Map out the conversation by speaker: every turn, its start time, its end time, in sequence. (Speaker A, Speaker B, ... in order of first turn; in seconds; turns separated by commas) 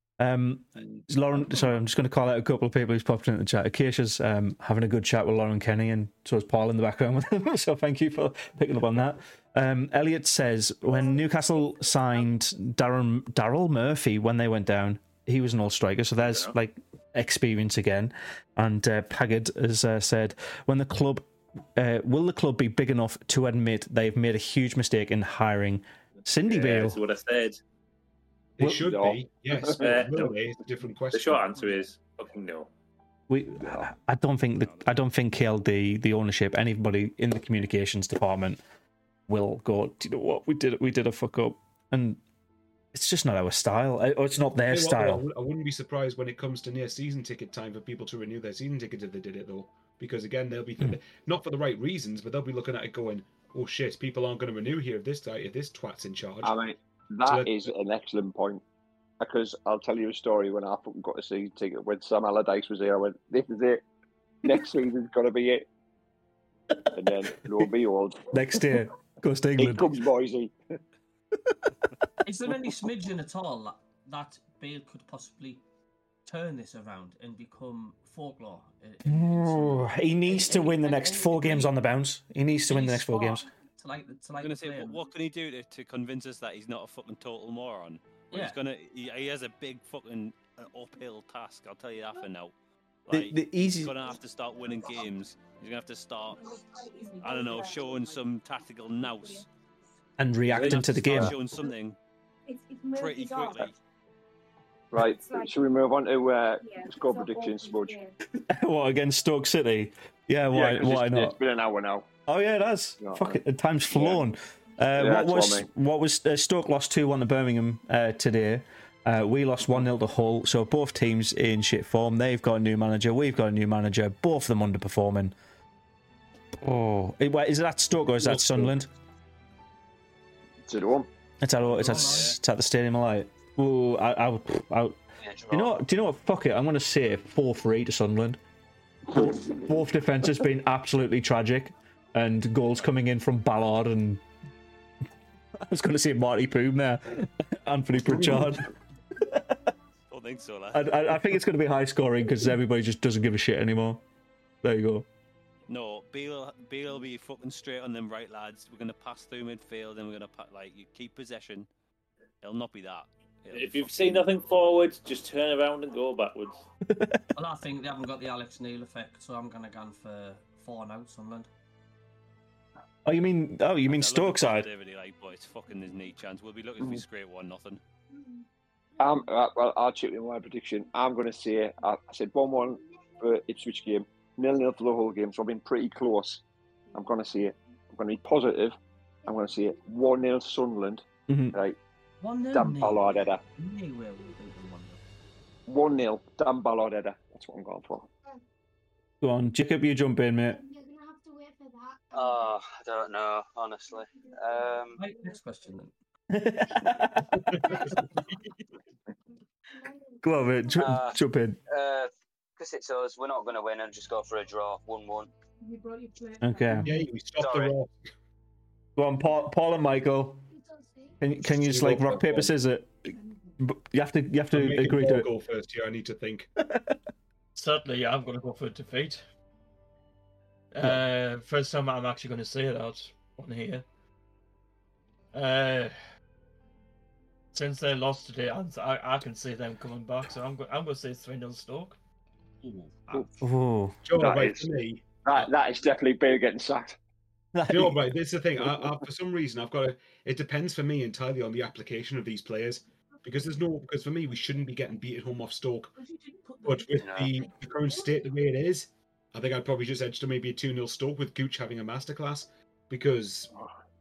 Speaker A: 0.2-27.0, Speaker B: 10.9-12.2, Speaker C: 16.2-16.5, Speaker C: 26.5-27.6, Speaker D: 28.6-31.6, Speaker E: 28.7-30.1, Speaker C: 29.8-30.3, Speaker C: 31.1-32.7, Speaker A: 33.3-38.6, Speaker F: 34.6-34.9, Speaker A: 39.3-42.2, Speaker A: 42.9-45.2, Speaker D: 44.7-56.5, Speaker E: 56.4-58.6, Speaker E: 59.2-63.9, Speaker E: 64.4-65.7, Speaker E: 66.9-68.8, Speaker A: 68.3-70.0, Speaker E: 69.6-70.5, Speaker G: 72.2-75.6, Speaker G: 76.3-81.7, Speaker A: 79.0-83.5, Speaker G: 82.7-85.0, Speaker F: 84.4-92.5, Speaker G: 88.3-88.6, Speaker F: 93.1-96.6, Speaker A: 93.1-94.0, Speaker B: 96.3-98.2, Speaker F: 97.2-99.5, Speaker B: 99.0-99.5, Speaker A: 100.2-101.4, Speaker F: 100.5-102.0, Speaker B: 102.5-103.7, Speaker F: 102.9-103.8, Speaker E: 104.9-108.0, Speaker B: 105.0-105.6, Speaker B: 106.6-108.1, Speaker A: 108.3-111.4, Speaker E: 110.5-112.1, Speaker A: 112.3-125.3, Speaker E: 113.0-113.4, Speaker E: 113.9-114.2, Speaker E: 115.0-115.7, Speaker A: 126.6-128.9, Speaker E: 128.2-128.7, Speaker E: 130.6-131.1, Speaker A: 131.4-135.0, Speaker G: 131.7-132.4, Speaker F: 131.7-132.3, Speaker H: 135.2-135.8, Speaker A: 135.5-138.4, Speaker A: 139.1-144.2, Speaker A: 145.6-149.6, Speaker F: 150.1-150.9, Speaker A: 150.7-154.0, Speaker A: 154.6-155.1, Speaker F: 155.7-161.7, Speaker F: 162.4-164.3, Speaker C: 163.5-166.7, Speaker A: 166.9-167.2, Speaker G: 167.4-171.5, Speaker A: 173.1-174.7, Speaker F: 173.9-177.8, Speaker E: 179.0-186.4, Speaker E: 186.9-188.8, Speaker E: 189.3-191.8, Speaker A: 191.3-191.6, Speaker G: 192.2-195.0, Speaker E: 192.5-193.4, Speaker E: 195.7-198.1, Speaker A: 199.2-200.6, Speaker B: 200.5-202.5, Speaker H: 202.1-205.0, Speaker B: 204.2-204.7, Speaker G: 205.0-205.9, Speaker A: 206.3-207.8, Speaker D: 207.3-208.2, Speaker B: 209.8-210.8, Speaker A: 210.2-211.6, Speaker H: 210.8-215.3, Speaker B: 215.6-217.1, Speaker A: 216.4-216.9, Speaker D: 216.8-217.9, Speaker H: 217.4-217.8, Speaker A: 219.0-220.4, Speaker B: 220.5-221.2, Speaker A: 221.2-225.3, Speaker D: 221.5-222.5, Speaker D: 224.5-226.5, Speaker A: 226.7-227.0, Speaker I: 227.6-229.2, Speaker I: 230.7-233.8, Speaker I: 235.3-235.9, Speaker I: 237.5-242.0, Speaker G: 242.6-243.2, Speaker A: 243.4-244.0, Speaker D: 244.1-245.5, Speaker E: 244.2-244.7, Speaker E: 245.2-247.0, Speaker A: 247.6-248.0, Speaker D: 247.7-255.9, Speaker B: 256.1-256.8, Speaker D: 256.6-263.5, Speaker H: 257.0-257.4